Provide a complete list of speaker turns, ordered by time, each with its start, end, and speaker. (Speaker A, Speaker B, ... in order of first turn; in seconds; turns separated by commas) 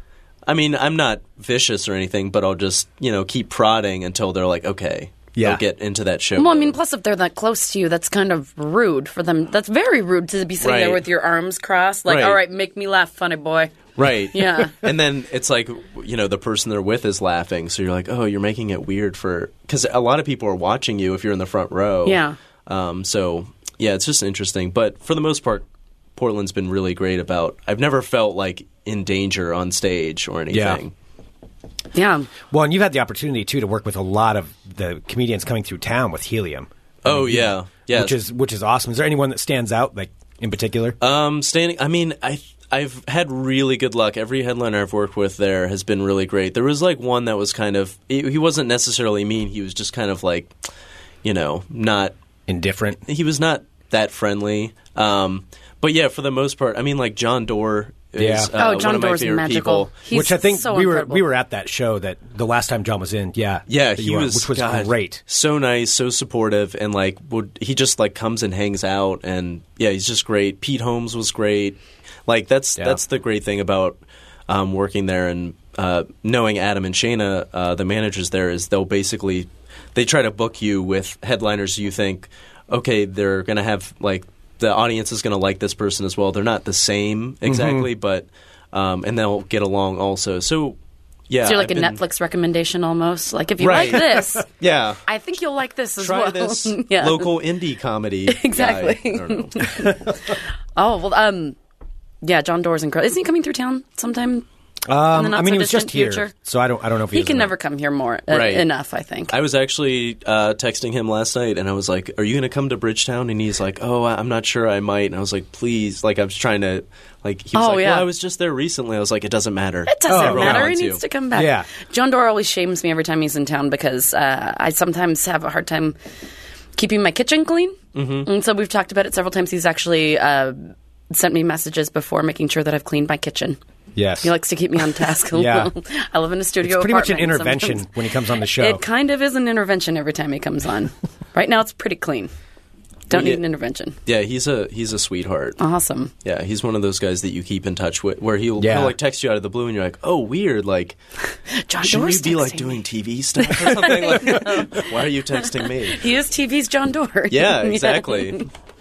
Speaker A: 0.5-6.8, Speaker B: 5.4-5.6, Speaker C: 6.4-13.8, Speaker A: 10.6-11.1, Speaker A: 12.1-12.4, Speaker A: 14.0-25.6, Speaker C: 14.3-14.7, Speaker C: 22.1-22.4, Speaker A: 26.2-30.9, Speaker B: 30.5-30.8, Speaker C: 31.9-32.3, Speaker B: 32.5-41.0, Speaker A: 37.0-38.2, Speaker A: 41.0-50.5, Speaker A: 51.2-52.1, Speaker B: 52.5-53.0, Speaker A: 53.1-59.9, Speaker B: 58.2-58.5, Speaker C: 58.6-61.2, Speaker B: 60.1-65.2, Speaker A: 63.7-90.8, Speaker B: 87.5-87.9, Speaker A: 91.3-92.0, Speaker C: 91.4-94.5, Speaker A: 93.6-95.0, Speaker C: 95.1-97.3, Speaker A: 96.0-99.8, Speaker C: 98.3-101.6, Speaker C: 102.2-104.5, Speaker B: 104.9-107.5, Speaker C: 105.1-106.3, Speaker C: 107.1-109.3, Speaker A: 108.3-108.7, Speaker A: 109.3-121.0, Speaker C: 117.5-118.1, Speaker C: 119.9-126.0, Speaker B: 120.1-120.7, Speaker B: 121.3-121.7, Speaker C: 126.8-133.6, Speaker A: 128.0-128.3, Speaker B: 133.9-134.3, Speaker C: 134.2-137.9, Speaker B: 135.3-135.7, Speaker B: 136.6-138.8, Speaker C: 138.5-142.3, Speaker C: 143.1-144.0, Speaker A: 143.1-143.4, Speaker A: 144.1-145.6, Speaker C: 145.6-146.1, Speaker A: 146.2-151.0, Speaker B: 148.6-148.9, Speaker C: 151.5-152.8, Speaker A: 151.8-156.0, Speaker C: 153.4-154.9, Speaker C: 155.9-158.5, Speaker A: 157.3-158.4